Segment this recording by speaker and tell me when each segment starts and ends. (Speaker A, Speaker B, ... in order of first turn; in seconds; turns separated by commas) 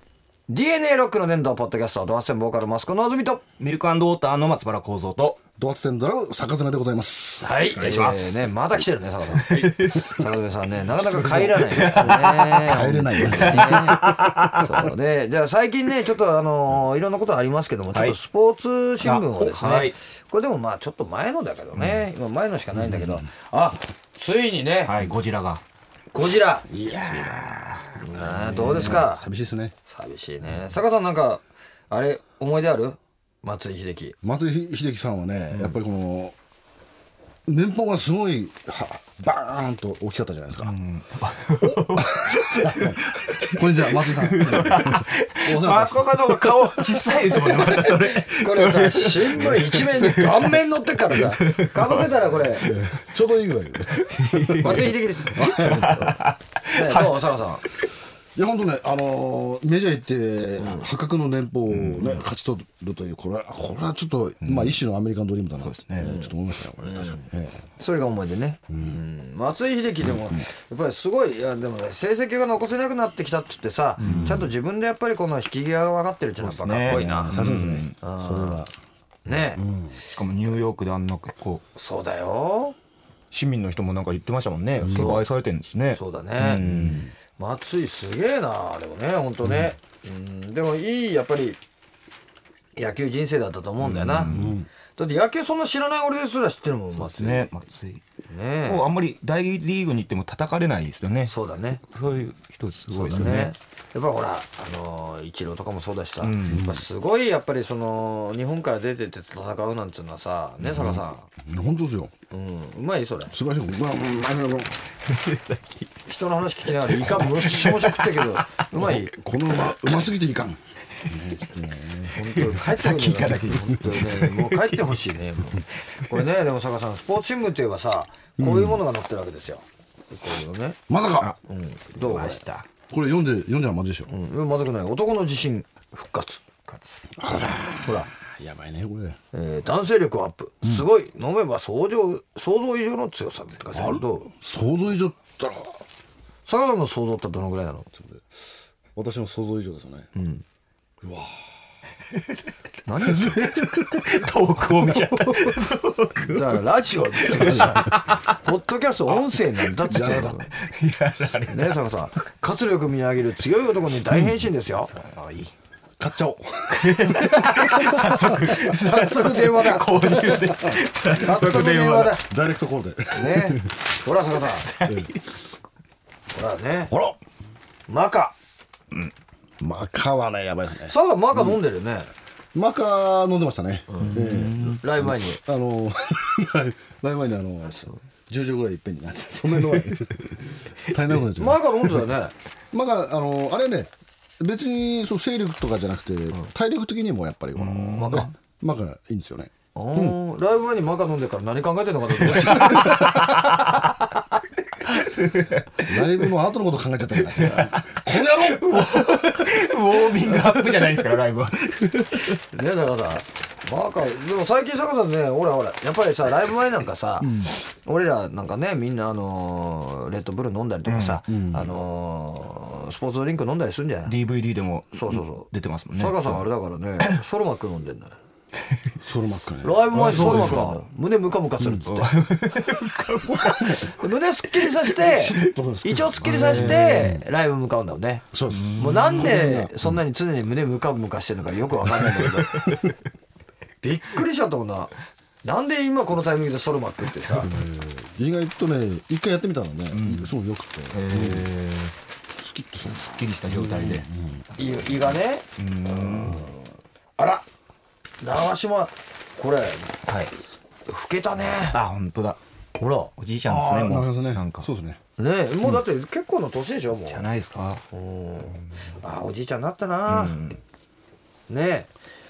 Speaker A: 0.5-3.4, Speaker B: 3.6-5.4, Speaker C: 5.6-7.5, Speaker A: 7.4-14.1, Speaker B: 7.7-8.5, Speaker B: 9.3-10.1, Speaker C: 11.0-14.7, Speaker B: 11.7-14.7, Speaker A: 14.6-25.0, Speaker B: 19.0-20.0, Speaker B: 21.8-22.0, Speaker C: 22.8-23.1, Speaker B: 24.9-25.6, Speaker A: 26.1-26.8, Speaker C: 26.7-29.7, Speaker B: 27.0-29.1, Speaker A: 28.0-29.3, Speaker A: 29.9-34.2, Speaker C: 34.2-36.4, Speaker C: 37.5-40.8, Speaker B: 40.6-50.6, Speaker C: 41.6-46.7, Speaker A: 47.3-52.7, Speaker C: 49.4-49.7, Speaker B: 51.1-52.1, Speaker C: 52.6-56.1, Speaker B: 53.9-57.4, Speaker A: 54.6-56.2, Speaker A: 56.7-57.6, Speaker C: 58.4-67.6, Speaker A: 60.6-60.9, Speaker B: 61.7-62.2, Speaker B: 64.4-64.8, Speaker B: 65.6-66.1, Speaker A: 66.0-66.3, Speaker A: 66.8-67.2, Speaker A: 67.8-77.4, Speaker C: 68.7-69.0, Speaker C: 70.0-70.4, Speaker B: 74.0-74.5, Speaker C: 74.0-74.5, Speaker B: 76.4-77.9, Speaker C: 76.9-78.7, Speaker A: 78.0-78.7, Speaker A: 79.3-79.6, Speaker C: 79.6-80.0, Speaker B: 80.1-81.6, Speaker A: 81.8-82.8, Speaker B: 83.3-87.1, Speaker C: 84.8-85.2, Speaker A: 84.9-85.2, Speaker A: 85.9-86.6, Speaker C: 86.6-87.1, Speaker A: 87.4-91.6, Speaker C: 89.5-89.7, Speaker A: 92.8-94.3, Speaker B: 93.8-94.6, Speaker C: 94.3-94.7, Speaker A: 95.0-97.5, Speaker B: 96.9-98.0, Speaker A: 98.3-98.9, Speaker B: 98.6-101.3, Speaker A: 101.3-101.8, Speaker B: 101.9-103.5, Speaker A: 102.9-111.3, Speaker C: 103.1-103.5, Speaker B: 106.2-106.7, Speaker C: 106.5-106.8, Speaker C: 110.6-112.1, Speaker A: 112.3-113.3, Speaker C: 113.3-114.8, Speaker B: 115.0-115.9, Speaker A: 116.1-119.1, Speaker B: 116.8-119.0, Speaker C: 118.8-122.2, Speaker B: 119.6-120.1, Speaker B: 122.1-125.0, Speaker A: 122.1-130.8, Speaker B: 125.6-126.3, Speaker C: 128.4-128.8, Speaker C: 130.9-131.3, Speaker A: 131.5-132.4, Speaker B: 132.0-132.7, Speaker C: 132.9-134.1, Speaker A: 134.1-136.4, Speaker B: 136.7-137.1, Speaker C: 137.2-139.2, Speaker A: 137.8-138.1, Speaker A: 139.3-144.3, Speaker C: 143.7-145.8, Speaker A: 146.5-147.9, Speaker C: 149.0-150.1, Speaker A: 150.2-150.4, Speaker C: 151.0-151.4, Speaker A: 152.9-153.7, Speaker B: 153.1-156.6, Speaker C: 153.1-154.0, Speaker A: 156.2-160.5, Speaker B: 157.2-158.3, Speaker C: 157.5-157.8, Speaker C: 159.9-160.4, Speaker B: 159.9-161.8, Speaker A: 161.5-164.9, Speaker B: 164.9-165.5, Speaker C: 166.0-167.3, Speaker B: 166.7-172.2, Speaker A: 167.1-172.2, Speaker C: 172.2-173.8, Speaker A: 173.2-174.7, Speaker B: 174.6-175.2, Speaker C: 174.8-175.2, Speaker A: 176.3-176.9, Speaker C: 176.9-177.2, Speaker A: 177.9-178.3, Speaker C: 179.6-181.6, Speaker A: 180.9-182.1, Speaker C: 182.5-191.6, Speaker A: 183.9-184.2, Speaker B: 184.0-184.8, Speaker A: 184.8-185.4, Speaker B: 189.6-190.1, Speaker A: 191.4-192.3, Speaker C: 192.7-200.2, Speaker B: 197.6-198.3, Speaker A: 198.0-198.3, Speaker A: 199.8-203.3, Speaker B: 202.3-203.9, Speaker C: 202.4-202.9, Speaker B: 204.9-206.3, Speaker C: 205.8-208.9, Speaker B: 207.2-212.4, Speaker A: 212.4-224.2, Speaker B: 220.9-221.2, Speaker C: 221.2-221.8, Speaker B: 224.1-226.4, Speaker A: 224.9-228.1, Speaker C: 229.0-230.7, Speaker A: 229.6-232.1, Speaker B: 229.9-230.8, Speaker C: 231.6-231.8, Speaker B: 231.8-234.0, Speaker A: 233.6-238.2, Speaker B: 234.6-234.9, Speaker C: 235.0-237.3, Speaker B: 236.2-237.0, Speaker C: 238.3-240.0, Speaker B: 238.5-239.6, Speaker A: 238.8-242.7, Speaker C: 241.9-242.4, Speaker A: 243.8-244.9, Speaker A: 245.4-247.6, Speaker C: 247.4-251.5, Speaker B: 249.9-250.3, Speaker B: 250.9-251.9, Speaker C: 252.4-254.7, Speaker B: 252.9-254.1, Speaker A: 254.6-255.5, Speaker B: 255.6-256.5, Speaker A: 256.1-256.6, Speaker A: 257.2-257.4, Speaker A: 258.2-259.9, Speaker B: 260.1-260.3, Speaker A: 260.9-261.8, Speaker B: 261.7-262.4, Speaker A: 262.8-263.1, Speaker B: 263.2-264.7, Speaker C: 263.5-265.0, Speaker A: 265.2-267.3, Speaker B: 267.1-267.8, Speaker A: 267.9-270.4, Speaker B: 270.1-270.6, Speaker A: 271.5-271.9